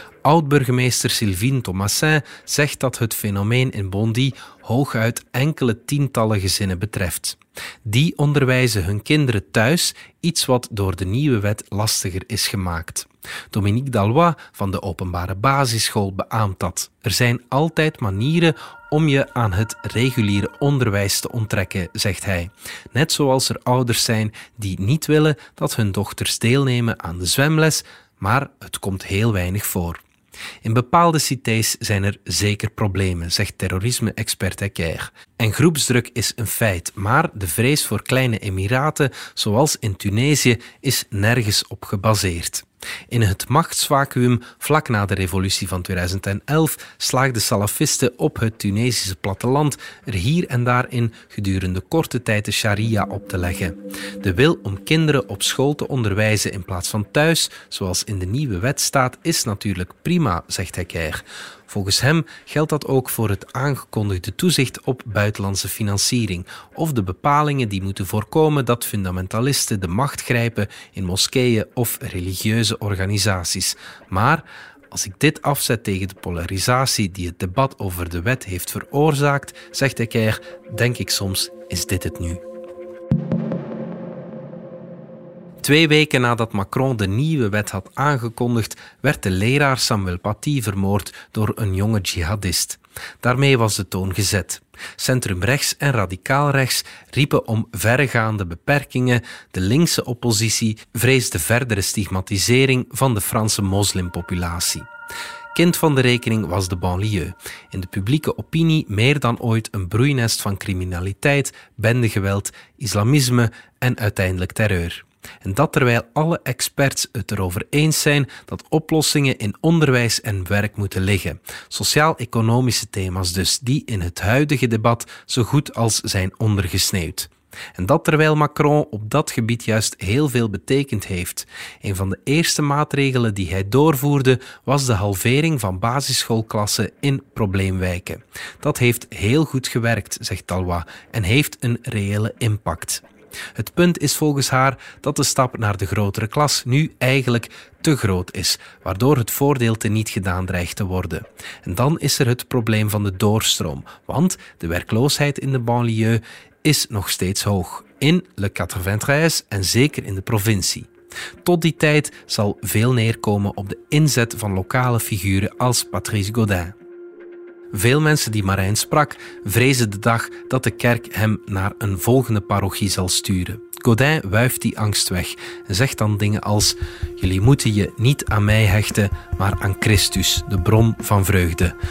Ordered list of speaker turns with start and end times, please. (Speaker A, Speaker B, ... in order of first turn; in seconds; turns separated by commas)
Speaker A: 0.2-30.0, Speaker A: 30.6-82.4, Speaker A: 85.6-104.9, Speaker A: 105.5-143.0, Speaker A: 143.5-160.9, Speaker A: 161.4-166.7, Speaker A: 167.7-181.7